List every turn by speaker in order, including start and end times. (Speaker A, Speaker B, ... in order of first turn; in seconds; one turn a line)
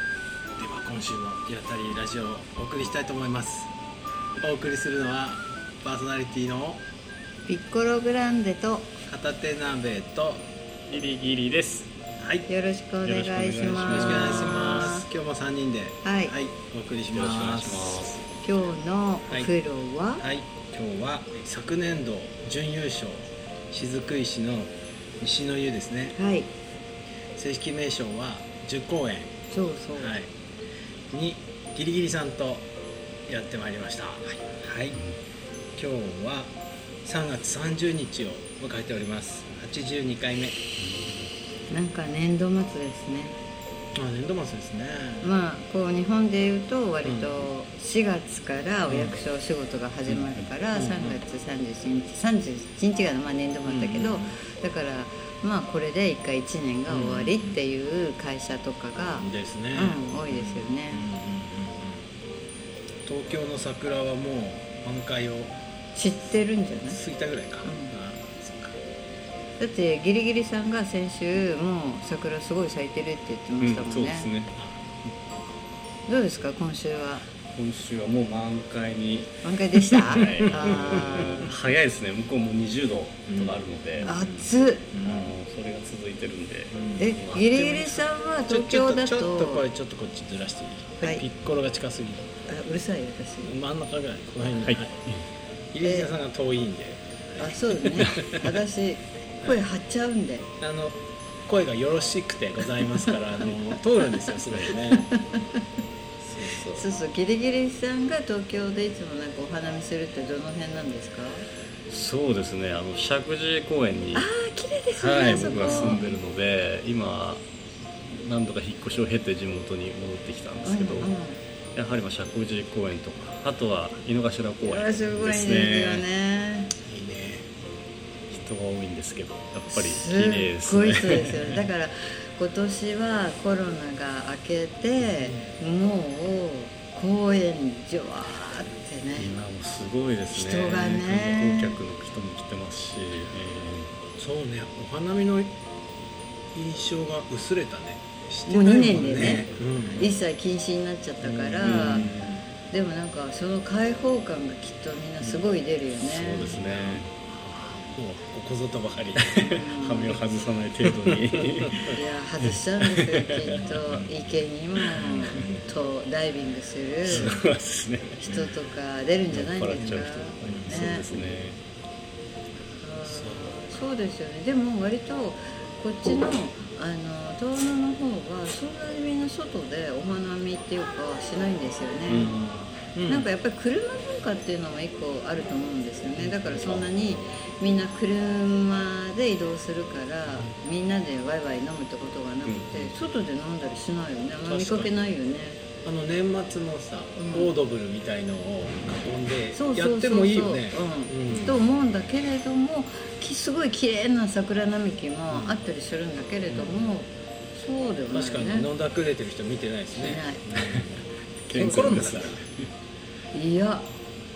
Speaker A: 0.6-3.7
Speaker A: 4.4-6.8
Speaker B: 7.5-8.9
Speaker A: 9.1-10.5
Speaker C: 10.9-11.9
Speaker A: 12.2-12.5
Speaker B: 12.5-15.1
Speaker C: 13.0-14.9
Speaker A: 13.8-18.1
Speaker B: 16.0-16.3
Speaker C: 17.1-18.2
Speaker B: 18.4-20.2
Speaker A: 20.2-26.1
Speaker B: 26.1-26.5
Speaker A: 27.4-29.3
Speaker B: 29.5-30.1
Speaker A: 30.0-30.3
Speaker A: 31.1-32.6
Speaker A: 33.3-35.0
Speaker A: 35.8-36.5
Speaker A: 37.0-40.6
Speaker C: 40.8-41.3
Speaker B: 41.7-43.4
Speaker A: 43.9-45.4
Speaker B: 45.2-61.1
Speaker A: 47.0-47.5
Speaker A: 48.9-49.2
Speaker C: 50.1-50.5
Speaker A: 50.7-51.2
Speaker A: 53.6-54.4
Speaker A: 56.9-57.6
Speaker A: 59.1-62.1
Speaker A: 63.0-65.5
Speaker B: 65.9-67.0
Speaker A: 66.9-68.8
Speaker B: 67.6-67.9
Speaker B: 69.6-74.3
Speaker C: 73.6-74.5
Speaker A: 74.5-74.8
Speaker B: 76.1-77.2
Speaker C: 77.5-84.1
Speaker B: 79.4-81.5
Speaker A: 80.2-81.5
Speaker A: 83.3-85.3
Speaker B: 84.0-84.9
Speaker C: 85.0-87.4
Speaker A: 86.7-92.3
Speaker B: 87.0-89.6
Speaker B: 92.5-93.5
Speaker A: 93.4-95.0
Speaker C: 94.6-95.2
Speaker A: 95.7-98.4
Speaker B: 95.8-96.1
Speaker B: 97.4-100.5
Speaker A: 100.6-105.0
Speaker B: 103.0-103.5
Speaker B: 104.2-105.6
Speaker A: 106.2-106.9
Speaker B: 106.5-111.5
Speaker C: 111.9-114.3
Speaker B: 114.1-116.1
Speaker C: 114.9-117.5
Speaker A: 115.3-116.0
Speaker C: 118.1-121.1
Speaker B: 120.6-121.4
Speaker C: 121.7-126.0
Speaker B: 124.6-126.7
Speaker A: 126.9-127.5
Speaker C: 128.3-131.6
Speaker B: 129.7-139.3
Speaker A: 135.0-135.5
Speaker C: 139.2-143.9
Speaker B: 140.3-141.8
Speaker A: 144.2-145.5
Speaker A: 146.5-150.2
Speaker B: 148.5-152.0
Speaker C: 149.1-150.1
Speaker A: 151.2-152.3
Speaker C: 151.6-152.3
Speaker B: 152.7-156.6
Speaker A: 155.2-155.4
Speaker C: 156.1-157.1
Speaker A: 156.4-159.6
Speaker C: 159.2-164.1
Speaker B: 159.5-160.2
Speaker A: 160.9-162.0
Speaker B: 161.9-167.3
Speaker A: 164.9-165.7
Speaker C: 167.1-168.3
Speaker A: 167.1-167.4
Speaker B: 168.2-171.1
Speaker C: 169.3-171.6
Speaker A: 170.4-171.3
Speaker B: 172.8-182.3
Speaker A: 173.0-173.6
Speaker C: 182.1-182.7
Speaker A: 182.1-183.3
Speaker B: 183.1-195.6
Speaker A: 186.2-186.7
Speaker C: 186.5-187.2
Speaker A: 190.3-190.5
Speaker C: 192.4-193.0
Speaker A: 194.4-195.1
Speaker A: 195.8-201.6
Speaker B: 197.2-197.5
Speaker B: 199.5-208.7
Speaker C: 201.2-201.6
Speaker A: 205.3-205.6
Speaker A: 206.5-206.9
Speaker A: 208.1-212.4
Speaker B: 210.0-210.4
Speaker C: 210.6-210.8
Speaker B: 211.4-212.3
Speaker C: 211.5-212.7
Speaker B: 213.3-213.9